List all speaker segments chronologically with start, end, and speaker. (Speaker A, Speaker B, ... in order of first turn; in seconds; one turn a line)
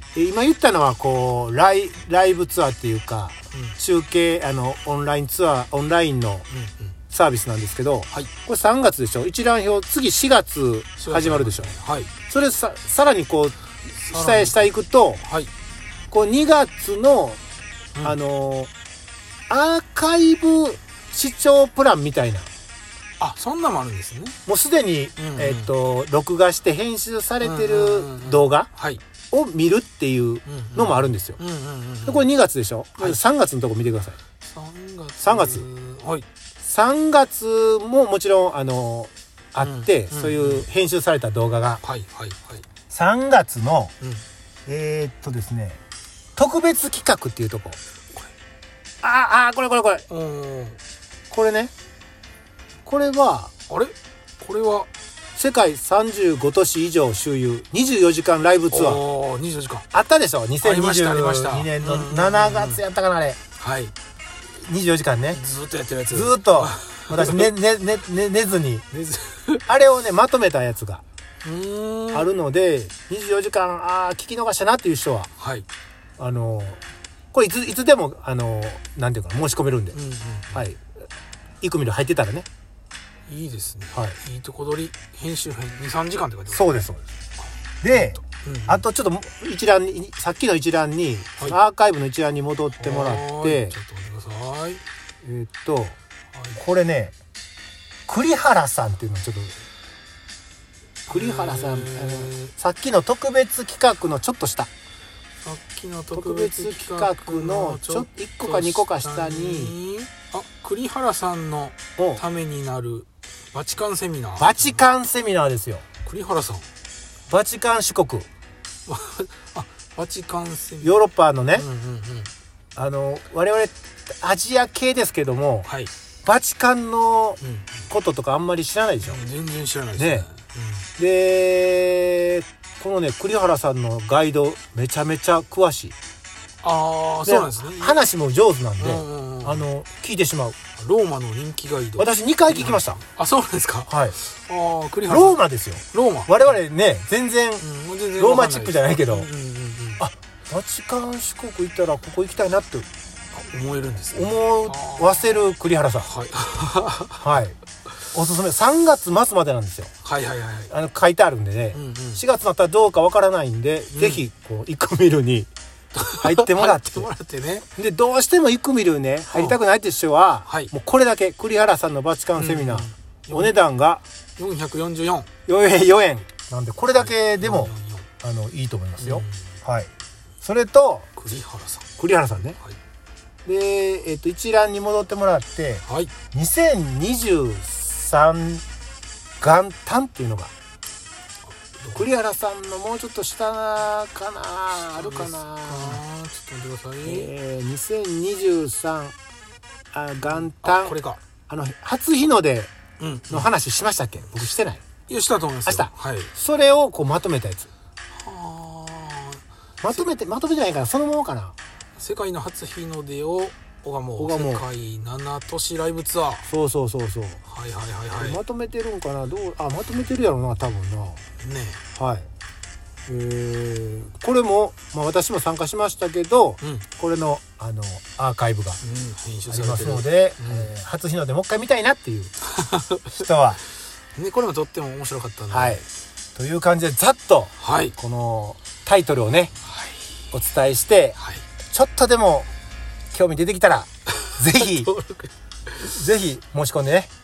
Speaker A: 0.1-6.5
Speaker B: 3.5-3.8
Speaker B: 6.5-6.9
Speaker A: 7.1-11.8
Speaker B: 11.0-12.1
Speaker A: 12.3-13.6
Speaker B: 14.0-14.7
Speaker A: 14.1-15.2
Speaker B: 15.2-15.5
Speaker A: 16.1-17.4
Speaker A: 18.0-18.7
Speaker A: 19.5-22.5
Speaker B: 23.2-24.4
Speaker A: 24.5-28.7
Speaker B: 25.2-25.7
Speaker B: 27.4-29.0
Speaker A: 29.3-31.4
Speaker B: 30.5-32.3
Speaker A: 32.1-34.2
Speaker B: 34.4-36.3
Speaker A: 35.2-35.7
Speaker A: 36.6-41.8
Speaker B: 39.6-40.7
Speaker B: 41.8-42.7
Speaker A: 42.9-43.9
Speaker A: 44.7-45.8
Speaker A: 46.4-47.8
Speaker A: 49.0-50.0
Speaker B: 50.1-50.8
Speaker A: 51.3-51.7
Speaker A: 52.9-53.5
Speaker B: 53.7-54.9
Speaker A: 55.4-59.0
Speaker B: 58.7-59.9
Speaker A: 59.9-63.4
Speaker B: 60.6-62.8
Speaker B: 63.6-63.9
Speaker A: 64.5-65.4
Speaker B: 65.3-67.5
Speaker A: 66.1-68.9
Speaker B: 68.9-69.7
Speaker A: 69.7-71.0
Speaker B: 71.4-72.3
Speaker A: 72.1-75.3
Speaker B: 75.4-75.7
Speaker A: 76.2-76.8
Speaker A: 77.3-80.0
Speaker B: 79.9-80.7
Speaker A: 80.5-80.8
Speaker A: 81.6-82.5
Speaker B: 83.3-86.8
Speaker A: 86.5-87.0
Speaker B: 87.4-88.8
Speaker A: 87.8-93.8
Speaker B: 92.8-94.8
Speaker A: 95.2-96.0
Speaker B: 96.3-96.6
Speaker A: 96.6-97.1
Speaker A: 98.1-99.5
Speaker A: 101.1-104.7
Speaker B: 101.1-102.5
Speaker B: 105.4-114.8
Speaker A: 106.1-109.8
Speaker A: 112.0-112.2
Speaker A: 114.4-115.8
Speaker B: 116.0-116.7
Speaker A: 117.3-118.3
Speaker B: 118.9-121.0
Speaker A: 120.8-121.7
Speaker B: 121.5-122.3
Speaker A: 122.8-125.7
Speaker B: 125.7-125.9
Speaker A: 126.2-127.4
Speaker B: 127.4-127.8
Speaker A: 127.9-129.2
Speaker B: 129.0-130.9
Speaker A: 130.0-130.3
Speaker A: 131.0-135.9
Speaker B: 136.6-138.0
Speaker A: 137.2-140.6
Speaker B: 138.8-139.7
Speaker B: 140.8-146.6
Speaker A: 142.0-143.0
Speaker A: 143.9-144.2
Speaker A: 145.1-149.3
Speaker B: 147.6-150.0
Speaker A: 150.0-152.9
Speaker B: 153.3-155.5
Speaker A: 154.1-156.1
Speaker B: 156.0-157.2
Speaker A: 157.2-157.6
Speaker A: 158.1-159.9
Speaker B: 160.0-160.7
Speaker A: 160.7-165.5
Speaker B: 161.7-162.2
Speaker B: 163.9-164.2
Speaker B: 165.9-167.7
Speaker A: 166.2-167.1
Speaker A: 167.8-174.0
Speaker B: 169.3-169.6
Speaker B: 170.5-170.7
Speaker B: 172.3-173.6
Speaker B: 174.4-175.3
Speaker A: 175.5-179.9
Speaker B: 176.9-178.1
Speaker B: 179.0-179.4
Speaker A: 180.4-181.1
Speaker B: 181.2-181.9
Speaker A: 182.0-182.6
Speaker B: 182.5-182.8
Speaker A: 183.4-188.6
Speaker B: 185.9-186.1
Speaker A: 189.4-190.5
Speaker B: 191.6-192.0
Speaker A: 191.9-196.0
Speaker B: 194.8-197.3
Speaker A: 197.0-199.1
Speaker A: 199.9-201.0
Speaker B: 200.2-201.2
Speaker A: 201.5-202.7
Speaker B: 203.0-203.5
Speaker A: 203.3-204.8
Speaker B: 205.1-206.3
Speaker A: 205.7-207.7
Speaker B: 208.1-210.1
Speaker A: 209.8-211.6
Speaker B: 212.0-216.5
Speaker A: 214.2-214.7
Speaker A: 216.5-217.4
Speaker B: 217.4-218.4
Speaker A: 218.1-221.2
Speaker B: 221.4-221.8
Speaker A: 222.0-222.3
Speaker A: 223.1-228.8
Speaker B: 226.6-226.9
Speaker B: 228.8-230.7
Speaker A: 229.5-232.3
Speaker B: 232.4-233.2
Speaker A: 233.1-233.6
Speaker B: 234.2-235.8
Speaker A: 235.5-235.8
Speaker A: 236.3-239.5
Speaker B: 237.6-237.9
Speaker B: 239.7-240.1
Speaker A: 240.3-241.2
Speaker B: 241.2-241.4
Speaker A: 241.7-242.5
Speaker A: 243.1-244.9
Speaker B: 244.2-245.9
Speaker A: 245.8-247.1